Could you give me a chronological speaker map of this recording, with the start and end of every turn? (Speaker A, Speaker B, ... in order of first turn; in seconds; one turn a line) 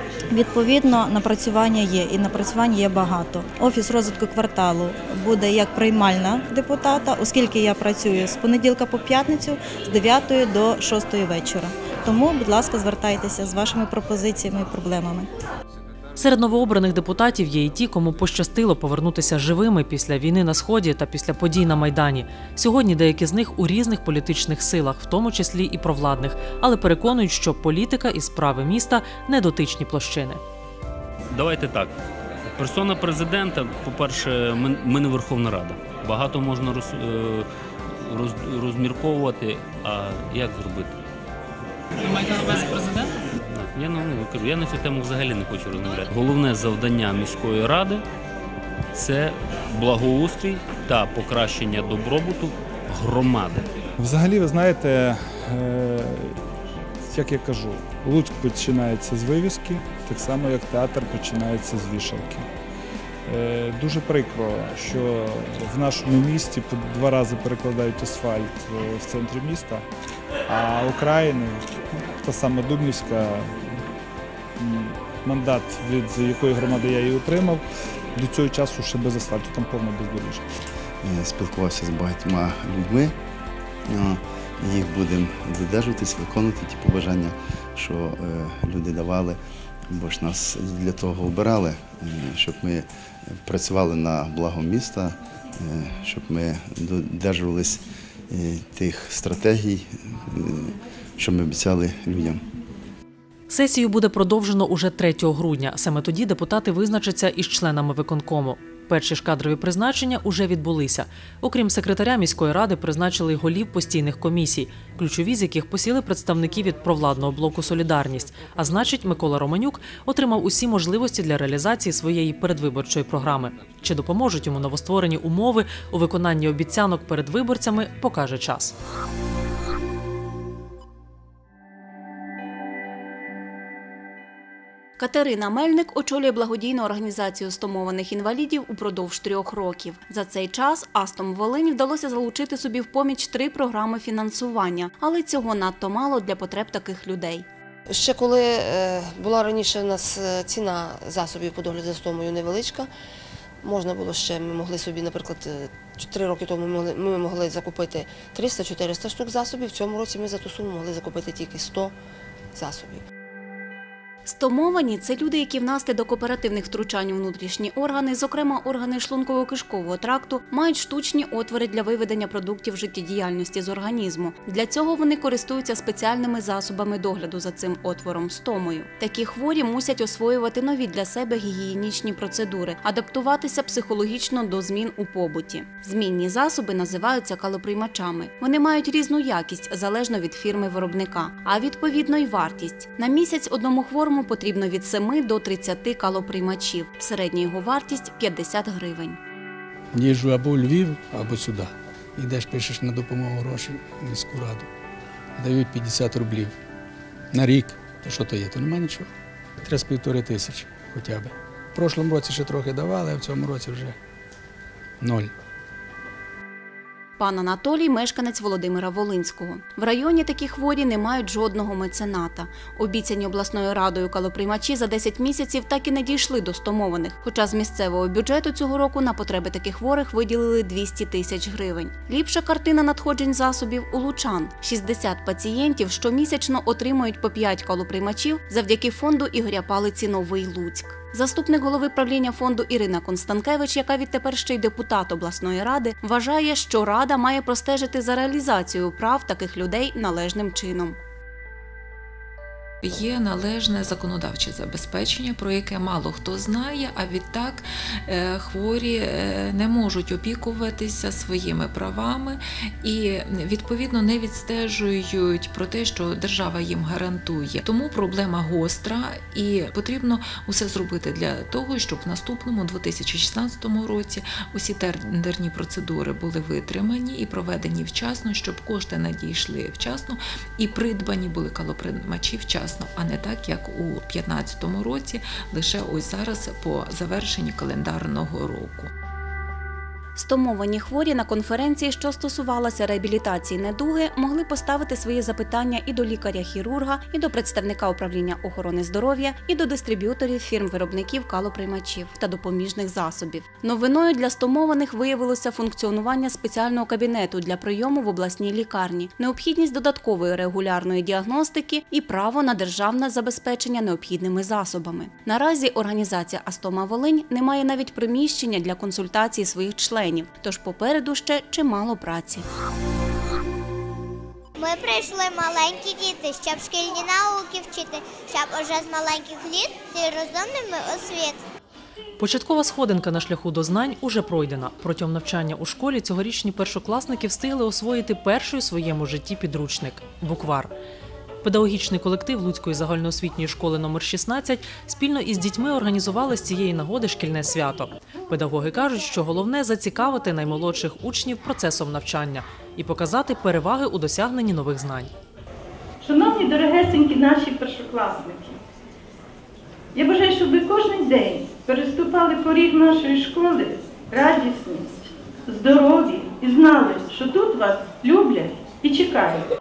Speaker A: 0.3-15.3
Speaker B: 16.2-30.4
Speaker C: 31.3-31.9
Speaker C: 32.6-37.5
Speaker C: 38.0-41.0
Speaker C: 42.2-42.8
Speaker C: 43.5-48.0
Speaker C: 48.9-53.7
Speaker D: 54.0-56.4
Speaker D: 57.1-62.5
Speaker D: 63.3-69.9
Speaker D: 70.5-73.8
Speaker D: 74.6-77.6
Speaker D: 78.2-80.4
Speaker E: 81.0-83.2
Speaker E: 83.9-89.4
Speaker E: 89.9-102.5
Speaker B: 103.5-128.7
Speaker F: 135.0-147.5
Speaker G: 147.9-152.9
Speaker G: 153.6-161.9
Speaker G: 162.5-163.0
Speaker F: 164.2-199.2
Speaker H: 199.9-204.7
Speaker H: 205.4-206.6
Speaker H: 207.3-209.1
Speaker H: 209.6-214.0
Speaker H: 215.0-215.3
Speaker F: 217.2-251.0
Speaker I: 252.8-288.9
Speaker F: 290.1-322.4
Speaker J: 324.6-331.4
Speaker B: 332.2-340.7
Speaker B: 341.4-355.1
Speaker K: 356.0-358.6
Speaker K: 359.9-369.5